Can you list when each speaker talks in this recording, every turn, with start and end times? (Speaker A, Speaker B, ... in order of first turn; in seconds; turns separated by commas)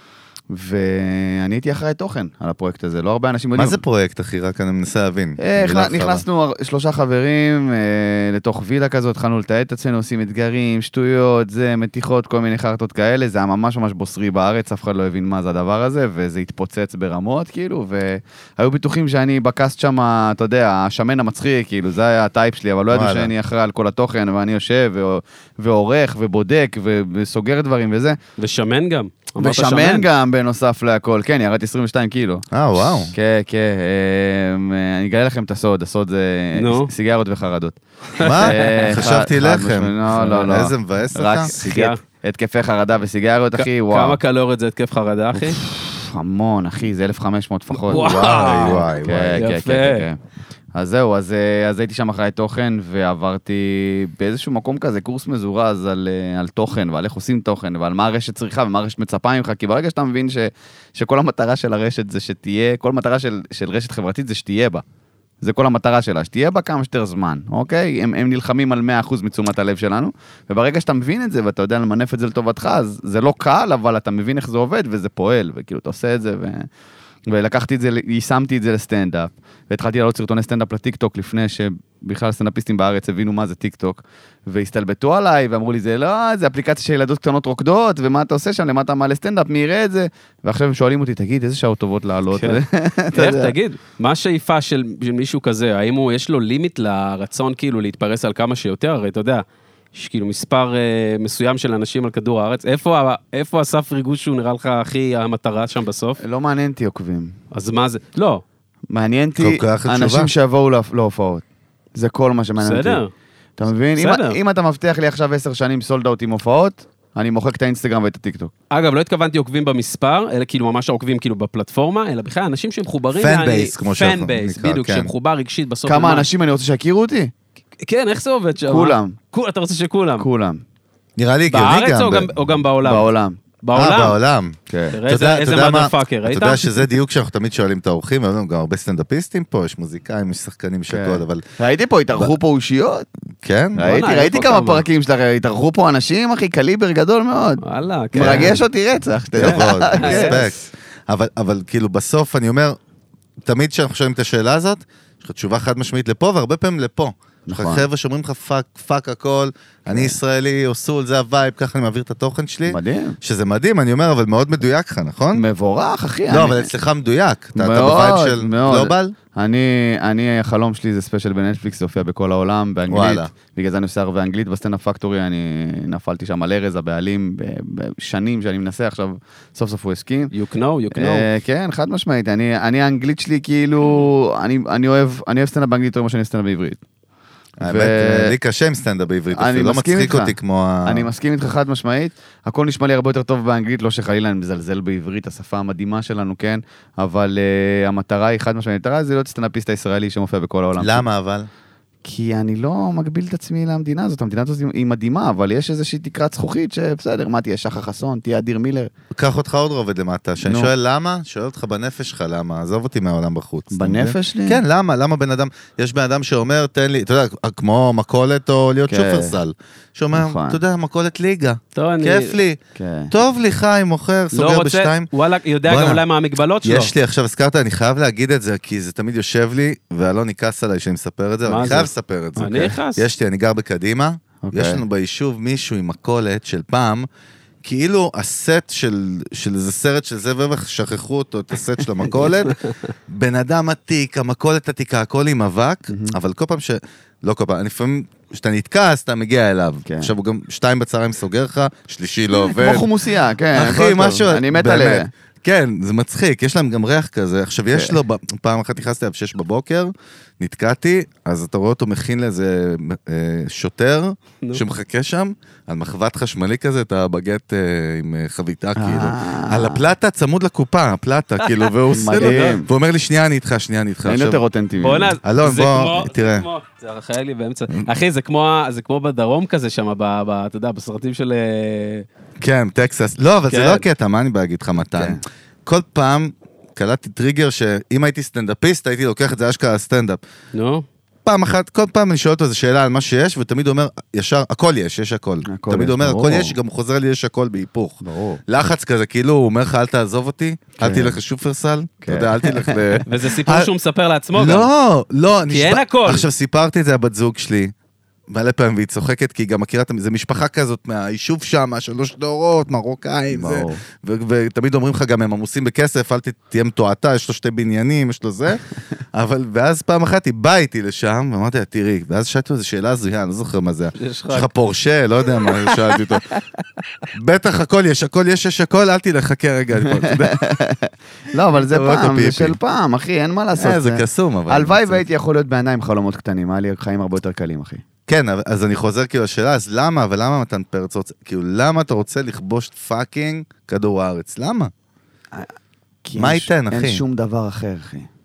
Speaker A: 0.5-3.8, Speaker B: 3.5-6.2, Speaker A: 5.4-28.2, Speaker B: 22.9-23.3, Speaker C: 28.4-30.1, Speaker A: 29.4-37.8, Speaker B: 32.5-33.1, Speaker C: 36.5-36.9, Speaker C: 38.2-38.9, Speaker B: 38.2-41.5, Speaker A: 38.4-44.2, Speaker C: 41.5-42.0, Speaker C: 43.5-45.6, Speaker A: 45.4-48.1, Speaker C: 47.9-50.1, Speaker B: 47.9-49.5, Speaker A: 49.0-50.2, Speaker A: 50.8-64.8, Speaker A: 65.4-76.7, Speaker A: 77.3-93.5, Speaker C: 92.3-92.6, Speaker C: 93.1-106.2, Speaker A: 106.2-107.4, Speaker C: 107.5-108.4, Speaker A: 108.9-111.4, Speaker B: 109.4-110.3, Speaker A: 112.0-113.0, Speaker C: 112.6-113.1, Speaker A: 113.6-118.5, Speaker C: 114.0-114.4, Speaker C: 118.7-126.3, Speaker B: 123.2-125.1, Speaker A: 125.9-127.3, Speaker C: 127.8-130.3, Speaker A: 128.7-129.2, Speaker A: 130.2-130.6, Speaker B: 131.2-132.3, Speaker C: 131.5-133.1, Speaker A: 132.8-133.4, Speaker C: 133.6-134.2, Speaker B: 133.8-141.4, Speaker A: 134.7-135.0, Speaker C: 134.9-136.9, Speaker A: 140.9-143.1, Speaker B: 143.4-144.0, Speaker A: 143.8-150.5, Speaker C: 143.8-144.9, Speaker C: 147.6-148.6, Speaker B: 148.2-148.5, Speaker B: 149.3-152.8, Speaker C: 149.4-150.5, Speaker B: 153.4-165.4, Speaker A: 157.5-157.9, Speaker A: 159.9-160.2, Speaker A: 162.7-163.2, Speaker A: 165.3-166.8, Speaker B: 166.3-169.2, Speaker A: 167.6-180.3, Speaker B: 172.9-173.3, Speaker C: 180.3-181.3, Speaker A: 180.9-186.8, Speaker B: 187.6-191.1, Speaker A: 187.6-188.3, Speaker A: 189.3-201.0, Speaker B: 200.8-201.5, Speaker A: 202.0-208.9, Speaker B: 209.1-222.6, Speaker A: 210.4-210.7, Speaker A: 213.7-214.6, Speaker A: 218.9-219.4, Speaker A: 220.1-220.6, Speaker C: 221.8-222.4, Speaker A: 222.8-223.1, Speaker B: 223.1-225.1, Speaker C: 224.3-226.9, Speaker B: 225.7-226.0, Speaker B: 226.6-237.1, Speaker C: 231.4-233.1, Speaker A: 234.4-234.8, Speaker B: 237.6-242.6, Speaker C: 242.2-242.7, Speaker B: 243.1-252.9, Speaker A: 245.9-246.2, Speaker A: 249.9-250.1, Speaker A: 252.3-255.1, Speaker B: 253.5-274.4, Speaker A: 268.8-269.8, Speaker A: 271.9-272.7, Speaker C: 272.1-272.6, Speaker A: 274.1-275.2, Speaker C: 274.8-282.1, Speaker B: 275.2-276.5, Speaker B: 282.4-290.2, Speaker C: 283.5-283.9, Speaker A: 284.9-285.2, Speaker C: 290.5-290.9, Speaker B: 291.2-303.7, Speaker A: 295.5-296.6, Speaker A: 298.0-298.4, Speaker A: 300.8-301.2, Speaker A: 302.0-303.0, Speaker C: 303.1-304.7, Speaker B: 304.4-307.7, Speaker C: 305.5-306.3, Speaker B: 308.3-326.3, Speaker A: 313.3-313.8, Speaker C: 324.0-324.5, Speaker B: 327.1-330.4, Speaker A: 329.9-337.8, Speaker B: 331.5-332.6, Speaker B: 333.6-335.1, Speaker B: 338.1-344.7, Speaker A: 346.0-348.1, Speaker B: 346.2-347.0